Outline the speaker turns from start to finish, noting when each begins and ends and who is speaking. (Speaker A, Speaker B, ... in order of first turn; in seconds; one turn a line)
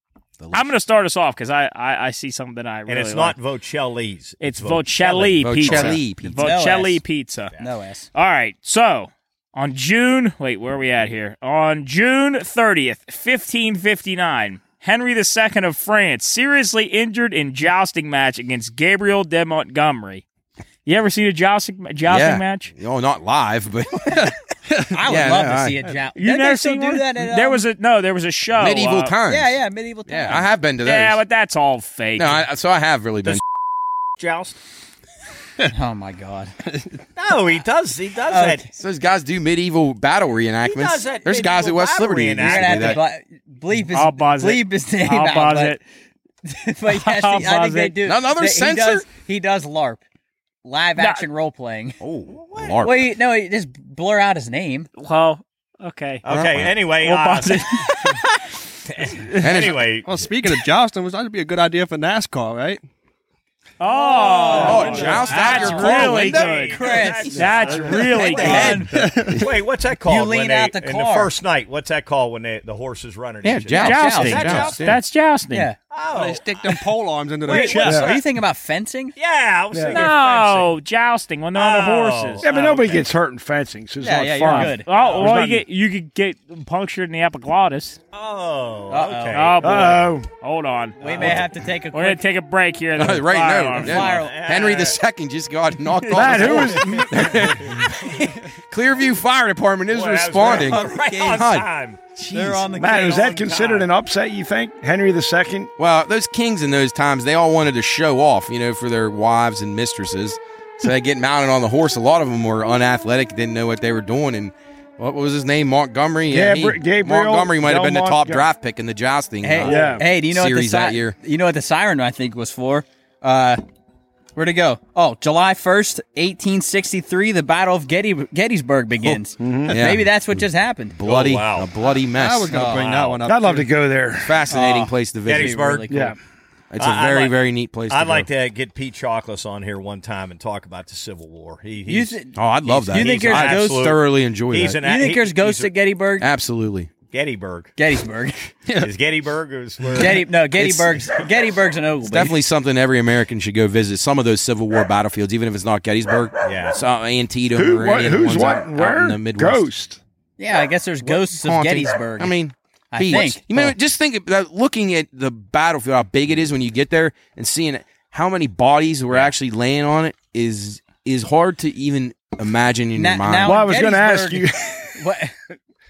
Speaker A: 0.4-0.7
Speaker B: 0.5-3.4
Speaker C: 2.9-6.0
Speaker B: 4.4-7.5
Speaker A: 5.4-6.5
Speaker D: 6.4-7.0
Speaker D: 7.6-8.1
Speaker B: 8.1-20.2
Speaker B: 20.9-22.7
Speaker A: 22.1-24.4
Speaker D: 24.9-27.6
Speaker A: 25.0-25.8
Speaker B: 26.2-29.2
Speaker A: 28.5-31.2
Speaker D: 29.3-30.5
Speaker B: 30.9-32.4
Speaker A: 32.2-33.4
Speaker C: 34.2-34.6
Speaker D: 35.7-36.5
Speaker C: 37.2-38.7
Speaker D: 38.3-38.7
Speaker A: 38.8-43.0
Speaker C: 40.6-43.0
Speaker D: 42.4-45.8
Speaker B: 43.8-45.8
Speaker D: 46.5-50.0
Speaker B: 46.9-48.0
Speaker A: 48.0-49.1
Speaker D: 50.6-52.0
Speaker B: 51.0-51.2
Speaker A: 52.0-53.1
Speaker C: 52.3-52.8
Speaker D: 52.8-54.9
Speaker B: 55.0-56.2
Speaker C: 56.2-57.7
Speaker A: 56.3-56.7
Speaker B: 57.0-58.3
Speaker C: 58.9-60.2
Speaker A: 59.4-59.8
Speaker E: 60.0-62.8
Speaker B: 63.8-68.9
Speaker D: 63.9-66.2
Speaker C: 64.5-74.9
Speaker A: 64.5-66.8
Speaker D: 66.7-68.9
Speaker F: 67.4-68.0
Speaker E: 68.6-69.5
Speaker D: 70.1-71.3
Speaker A: 73.4-75.0
Speaker B: 73.8-75.7
Speaker D: 73.8-74.8
Speaker C: 75.9-76.8
Speaker E: 76.1-78.2
Speaker C: 77.5-78.2
Speaker D: 77.5-79.2
Speaker C: 79.2-80.7
Speaker F: 79.7-80.0
Speaker B: 79.9-82.5
Speaker C: 81.5-83.0
Speaker F: 82.4-85.6
Speaker D: 84.0-84.9
Speaker B: 84.5-88.0
Speaker C: 84.9-85.5
Speaker C: 88.1-90.1
Speaker D: 88.9-89.6
Speaker B: 89.3-94.0
Speaker F: 89.6-90.3
Speaker D: 91.0-92.2
Speaker C: 91.0-91.3
Speaker A: 93.0-102.7
Speaker D: 93.8-94.4
Speaker C: 93.9-95.0
Speaker F: 96.1-97.6
Speaker C: 96.5-98.3
Speaker C: 99.9-102.0
Speaker D: 100.4-101.5
Speaker D: 102.3-103.4
Speaker F: 102.7-105.7
Speaker C: 102.8-103.9
Speaker A: 105.8-121.2
Speaker F: 116.3-118.5
Speaker D: 119.4-123.6
Speaker F: 119.6-120.0
Speaker D: 124.4-131.0
Speaker A: 129.0-132.6
Speaker F: 129.4-129.8
Speaker C: 131.0-131.7
Speaker E: 132.1-133.8
Speaker D: 132.5-132.8
Speaker C: 132.6-133.2
Speaker F: 133.2-134.4
Speaker A: 134.2-135.7
Speaker D: 134.5-136.2
Speaker C: 135.3-136.0
Speaker F: 135.9-136.2
Speaker A: 136.7-138.3
Speaker C: 136.8-137.4
Speaker C: 137.9-142.2
Speaker D: 141.9-143.9
Speaker A: 142.3-144.8
Speaker C: 142.9-145.7
Speaker D: 144.8-146.3
Speaker A: 146.2-146.9
Speaker C: 147.1-147.7
Speaker D: 147.8-148.5
Speaker C: 148.8-150.3
Speaker D: 150.0-152.4
Speaker A: 150.6-151.0
Speaker A: 152.0-159.7
Speaker C: 156.4-156.8
Speaker F: 157.6-160.0
Speaker D: 160.4-162.4
Speaker A: 161.0-173.6
Speaker D: 162.9-163.7
Speaker D: 172.9-175.3
Speaker F: 173.4-175.0